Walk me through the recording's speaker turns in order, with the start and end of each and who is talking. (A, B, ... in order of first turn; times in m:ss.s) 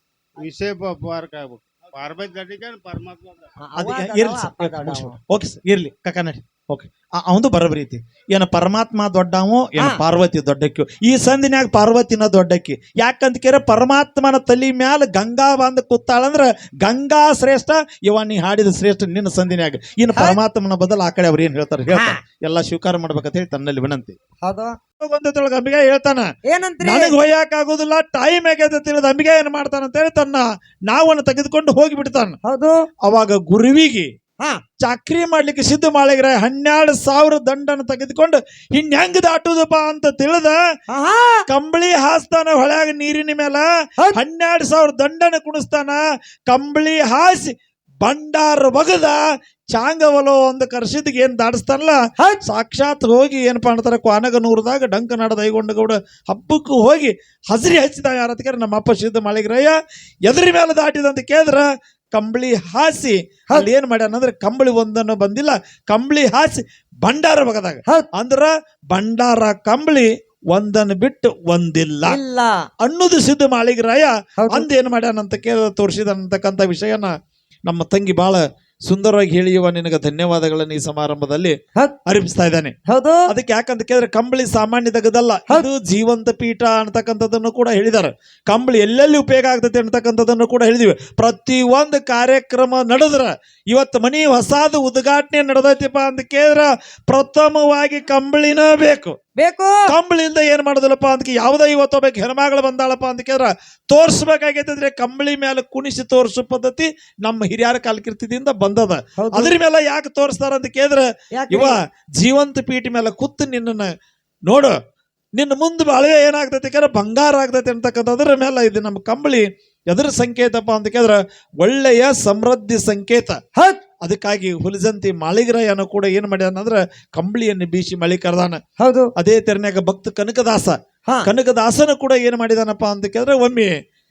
0:00.4-0:03.4 A
0:03.6-0:05.2 B
0:03.8-0:24.2 C
0:21.9-0:22.2 B
0:24.4-0:24.8 B
0:25.0-0:26.3 C
0:26.5-0:27.1 B
0:26.8-0:32.4 C
0:32.4-0:32.8 B
0:33.0-0:34.1 C
0:34.8-0:40.6 C
0:40.9-0:41.4 B
0:41.5-0:49.2 C
0:49.7-1:12.2 C
1:12.1-1:12.7 B
1:12.8-1:17.1 C
1:14.4-1:14.7 B
1:17.6-1:21.5 C
1:22.0-1:22.7 C
1:22.9-1:23.3 B
1:23.3-1:39.2 C
1:39.4-1:39.8 B
1:39.9-1:53.9 C
1:49.2-1:49.5 B
1:51.3-1:51.8 B
1:54.5-1:54.8 C
1:55.4-2:03.4 C
2:04.0-2:08.6 C
2:08.8-2:09.1 B
2:09.2-2:13.7 C